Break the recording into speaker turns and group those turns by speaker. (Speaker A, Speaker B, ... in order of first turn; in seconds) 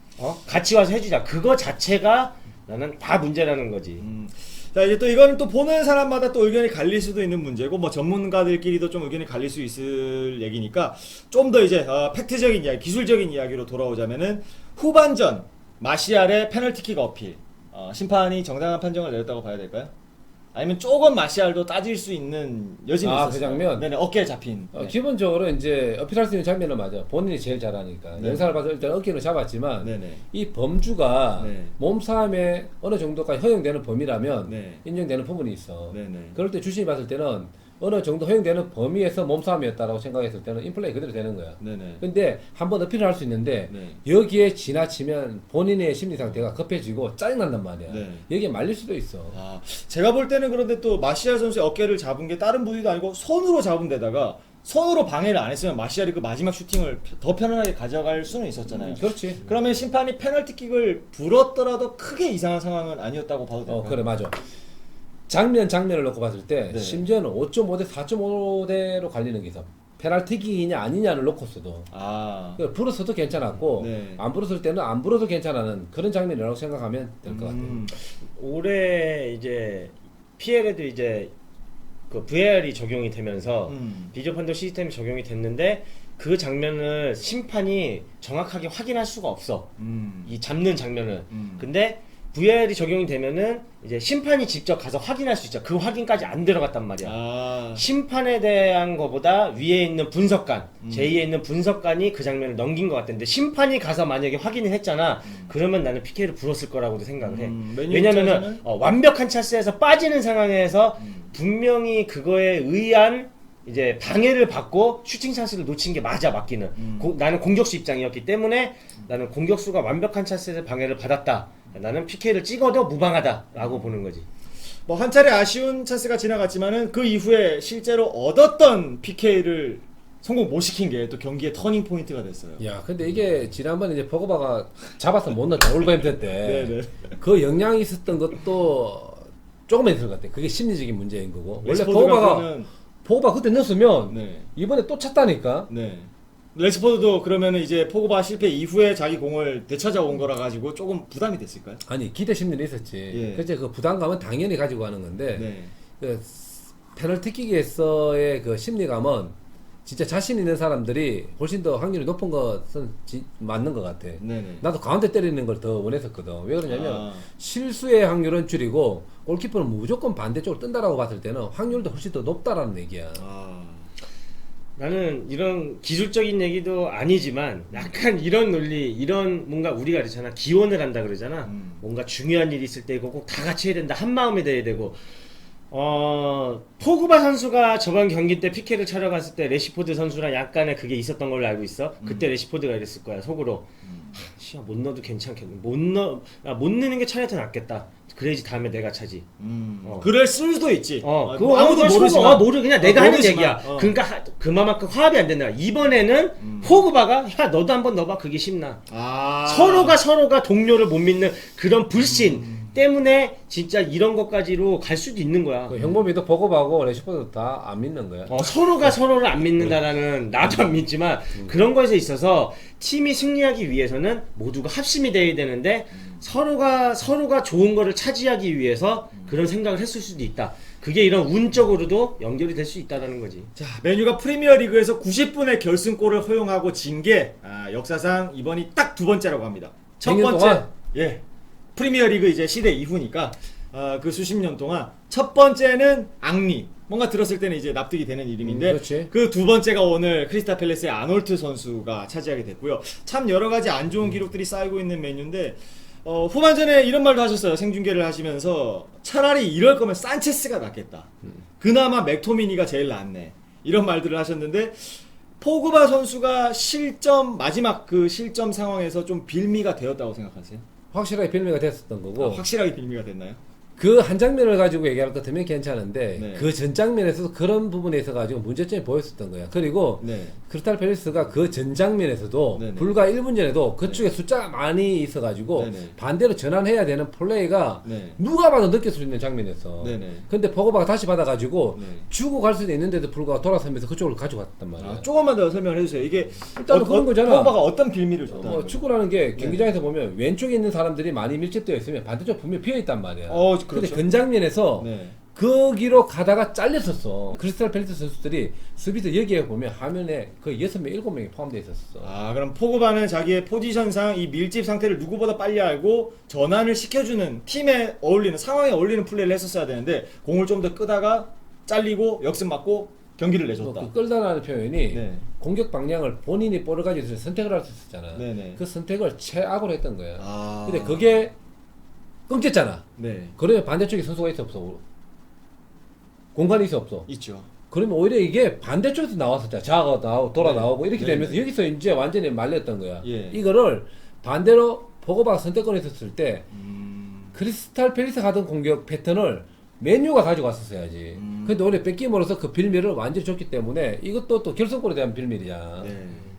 Speaker A: 0.2-4.0, 78.3-81.3, 82.1-89.7, 90.3-97.2, 97.7-124.3, 174.8-185.0, 185.7-193.7, 194.2-199.2, 199.8-200.1, 201.0-208.8, 209.4-215.8, 218.3-233.5
Speaker B: 4.0-19.9, 20.5-24.9, 28.2-28.6, 29.8-30.2, 31.4-31.7, 34.5-34.8, 35.9-36.4, 41.6-42.0, 43.7-44.0, 46.2-46.5, 47.9-48.3, 49.3-64.0, 66.7-67.1, 71.9-72.6, 73.6-74.2, 77.3-78.0, 83.7-84.1, 89.8-90.3, 91.3-91.7, 97.0-97.8, 100.8-101.2, 107.2-108.7, 111.0-111.3, 116.8-117.1, 123.6-124.0, 124.9-132.7, 136.4-137.2, 141.6-142.7, 144.1-144.5, 145.7-151.8, 153.1-153.5, 155.3-155.7, 164.2-164.7, 166.7-167.2, 173.2-173.9, 181.5-181.8, 192.0-192.3, 193.8-194.2, 199.4-204.0, 206.4-206.8, 208.9-210.0, 212.0-212.8, 215.8-216.1, 233.6-241.2, 241.8-270.6, 272.2-273.4, 276.2-276.5, 280.0-280.4, 282.6-283.0, 283.8-284.1, 285.5-286.0, 287.8-288.2, 289.8-290.3, 291.8-292.1, 294.8-298.8, 299.3-299.7, 303.3-304.1, 304.8-305.2, 312.0-323.9, 324.9-325.3, 328.1-328.6, 330.2-331.2, 333.0-333.4, 337.1-337.5, 340.4-341.4, 343.0-343.4, 346.5-347.4, 351.1-351.8, 355.8-356.2
Speaker C: 23.0-23.9, 24.7-49.4, 58.8-59.4, 63.7-64.4, 65.3-71.9, 72.6-77.8, 132.6-145.7, 151.9-173.2, 215.7-218.4, 240.0-240.7, 248.4-249.1, 270.9-272.4, 273.8-295.1, 296.6-297.6, 298.3-312.1, 323.6-331.4, 332.3-332.9, 333.4-334.8, 336.4-337.1, 337.7-346.5, 347.3-356.0